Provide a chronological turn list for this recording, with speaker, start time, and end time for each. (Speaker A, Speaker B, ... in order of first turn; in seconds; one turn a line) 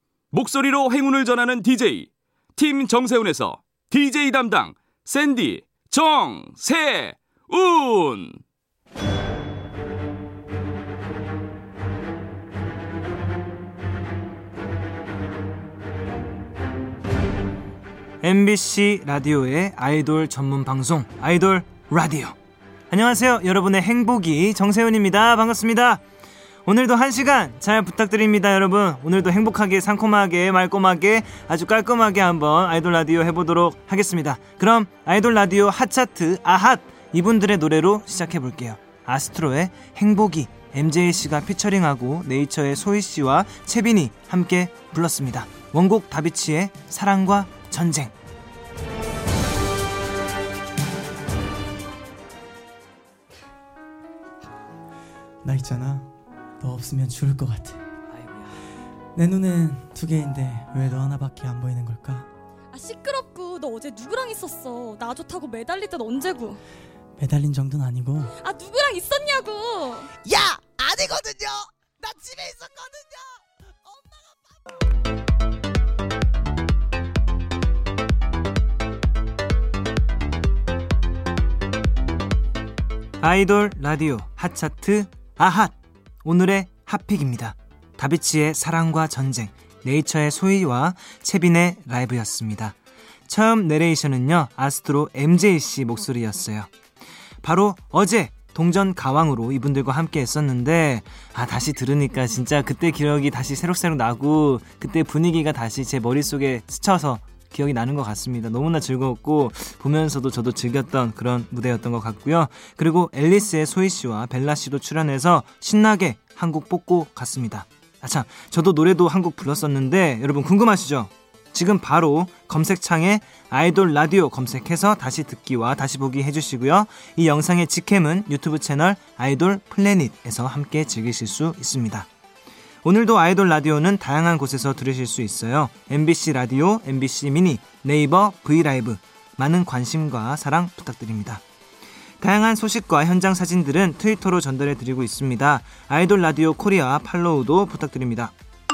Speaker A: 0.3-8.4
Speaker B: 18.2-22.4
Speaker B: 22.9-26.0
Speaker B: 26.6-48.1
Speaker C: 55.4-57.8
Speaker C: 59.1-62.3
Speaker D: 62.7-66.6
Speaker C: 67.2-68.3
Speaker D: 68.3-70.1
Speaker E: 70.3-73.2
Speaker E: 73.9-74.5
Speaker B: 83.2-92.8
Speaker B: 93.3-96.7
Speaker B: 97.4-132.1
Speaker B: 132.8-141.4
Speaker B: 142.2-148.3